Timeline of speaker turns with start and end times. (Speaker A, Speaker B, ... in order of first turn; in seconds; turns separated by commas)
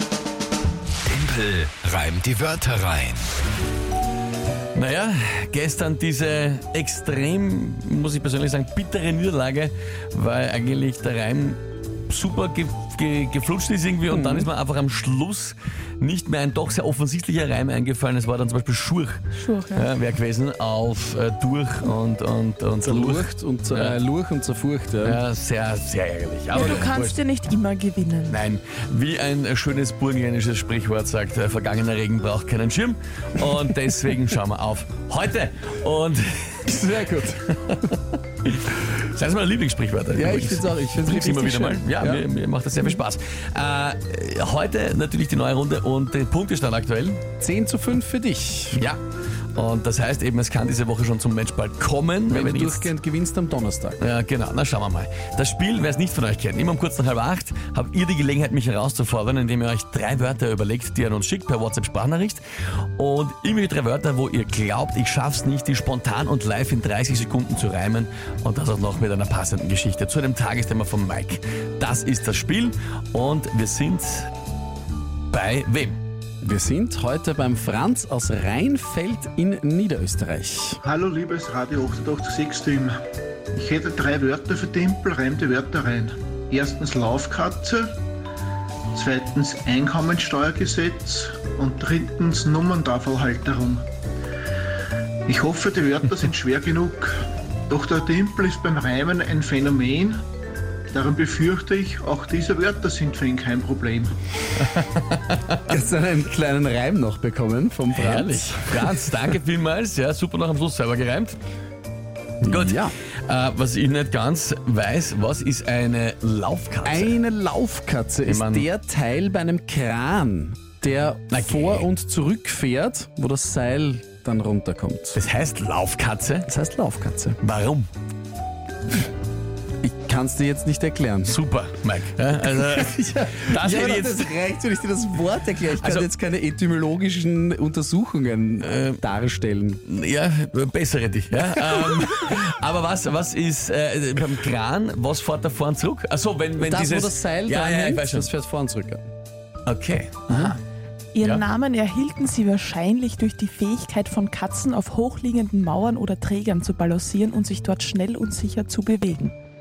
Speaker A: 1.1-3.3, Speaker B: 4.7-19.2, Speaker C: 14.1-14.5, Speaker D: 19.4-19.9, Speaker B: 19.7-24.0, Speaker C: 22.8-25.2, Speaker B: 25.0-27.1, Speaker D: 26.5-28.4, Speaker B: 28.3-36.7, Speaker C: 36.6-37.5, Speaker B: 38.4-47.2, Speaker C: 40.1-42.2, Speaker C: 47.4-48.9, Speaker B: 49.5-52.9, Speaker C: 52.3-54.0, Speaker B: 54.0-62.4, Speaker B: 63.0-74.3, Speaker B: 75.3-76.0, Speaker C: 76.4-80.8, Speaker E: 80.8-83.0, Speaker E: 83.5-88.0, Speaker E: 88.9-93.8, Speaker E: 95.3-97.2, Speaker E: 97.7-100.2, Speaker E: 100.9-104.1, Speaker B: 104.7-105.8, Speaker C: 105.7-109.2, Speaker B: 107.9-111.4, Speaker C: 112.4-112.9, Speaker B: 112.5-117.2, Speaker C: 116.8-125.2, Speaker B: 118.2-118.7, Speaker B: 121.3-121.9, Speaker B: 125.1-126.5, Speaker C: 126.5-127.4, Speaker B: 127.4-127.9, Speaker C: 129.8-131.4, Speaker B: 131.2-134.3, Speaker C: 132.5-139.8, Speaker B: 135.8-136.1, Speaker B: 138.7-139.0, Speaker B: 139.9-148.3, Speaker C: 146.6-149.1, Speaker B: 149.7-150.6, Speaker C: 150.3-150.5, Speaker D: 151.1-159.3